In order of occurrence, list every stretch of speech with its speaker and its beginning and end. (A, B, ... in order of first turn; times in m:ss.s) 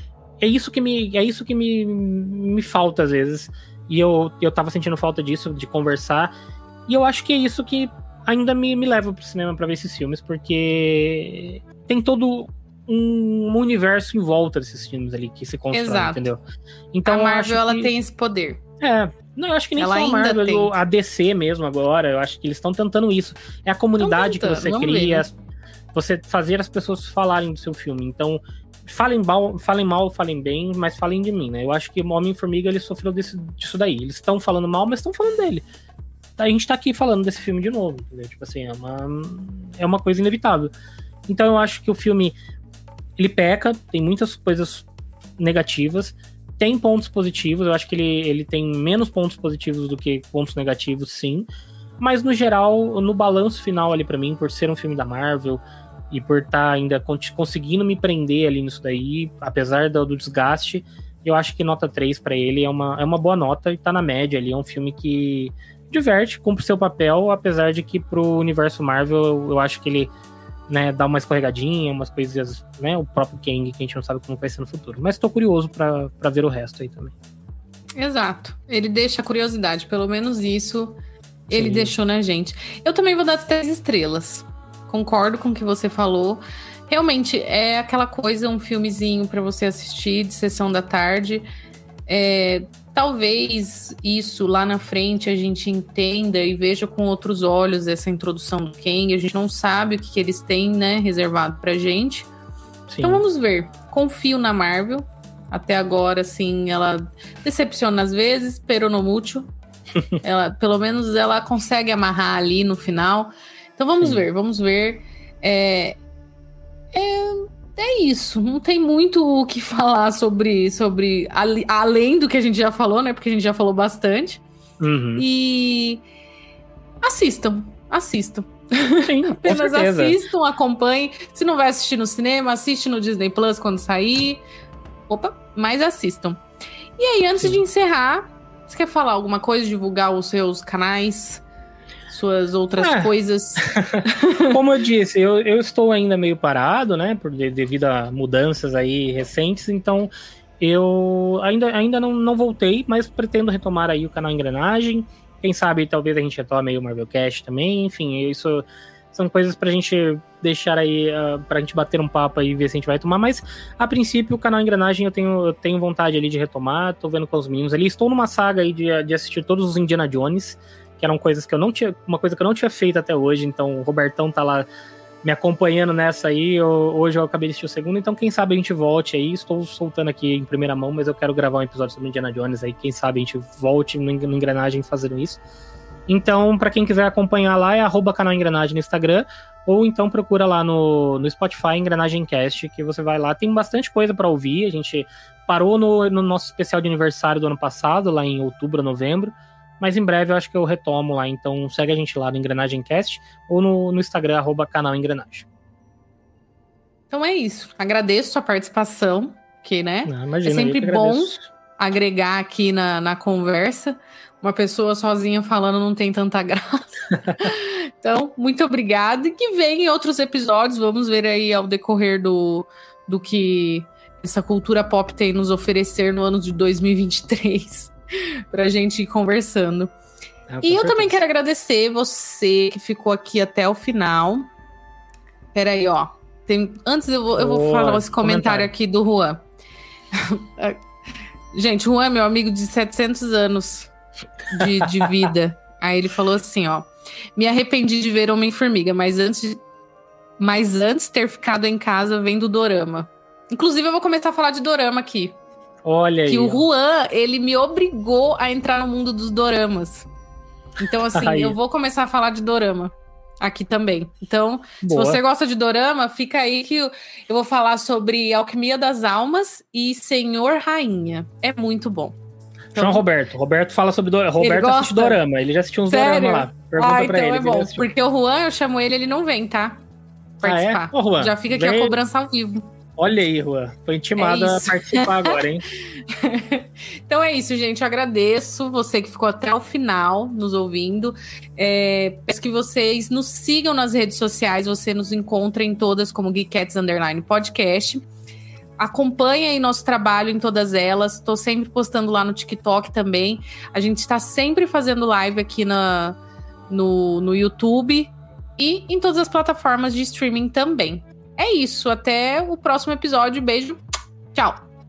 0:00.4-0:06.3 A
0:06.9-0:16.4 A
0:15.7-0:16.2 B
0:16.9-0:17.9 A
0:17.1-0:18.6 B
0:18.8-0:25.3 A
0:19.8-0:20.8 B
0:24.0-0:25.3 B
0:25.9-0:35.6 A
0:36.4-0:40.7 A
0:41.3-0:42.4 A
0:43.2-0:44.9 A
0:45.4-0:51.5 A
0:52.0-1:10.1 A
1:10.7-1:17.1 A
1:18.0-1:21.0 B
1:21.5-1:31.5 B
1:21.5-1:21.9 A
1:32.1-1:42.3 B
1:42.9-1:43.2 A
1:43.0-1:49.5 B
1:50.2-1:56.0 B
1:56.9-2:04.4 B
2:04.8-2:05.2 A
2:05.2-2:06.0 B
2:07.0-2:14.4 B
2:09.0-2:10.2 A
2:15.1-2:16.4 B
2:17.0-2:21.4 B
2:17.4-2:17.6 A
2:22.1-2:24.6 B
2:22.8-2:54.7 A
2:55.2-3:05.4 A
3:06.1-3:25.5 A
3:27.1-3:47.9 B
3:30.1-3:31.4 A
3:48.5-3:49.9 B
3:50.5-3:51.2 A
3:50.6-3:54.5 B
3:55.5-3:59.4 B
3:57.4-3:58.7 A
4:00.1-4:00.8 B
4:01.5-4:03.9 B
4:04.5-4:09.6 B
4:04.6-4:05.3 A
4:10.4-4:15.4 B
4:15.8-4:16.6 A
4:16.3-4:20.1 B
4:20.8-4:32.2 B
4:21.2-4:21.6 A
4:24.8-4:25.2 A
4:32.8-4:33.0 B
4:32.8-4:37.9 A
4:34.4-4:35.2 B
4:35.9-4:39.8 B
4:40.4-4:42.7 B
4:40.4-4:42.0 A
4:43.0-4:45.6 A
4:44.2-4:45.4 B
4:46.1-4:58.1 B
4:58.8-5:06.2 B
5:06.7-5:13.8 B
5:14.3-5:14.6 B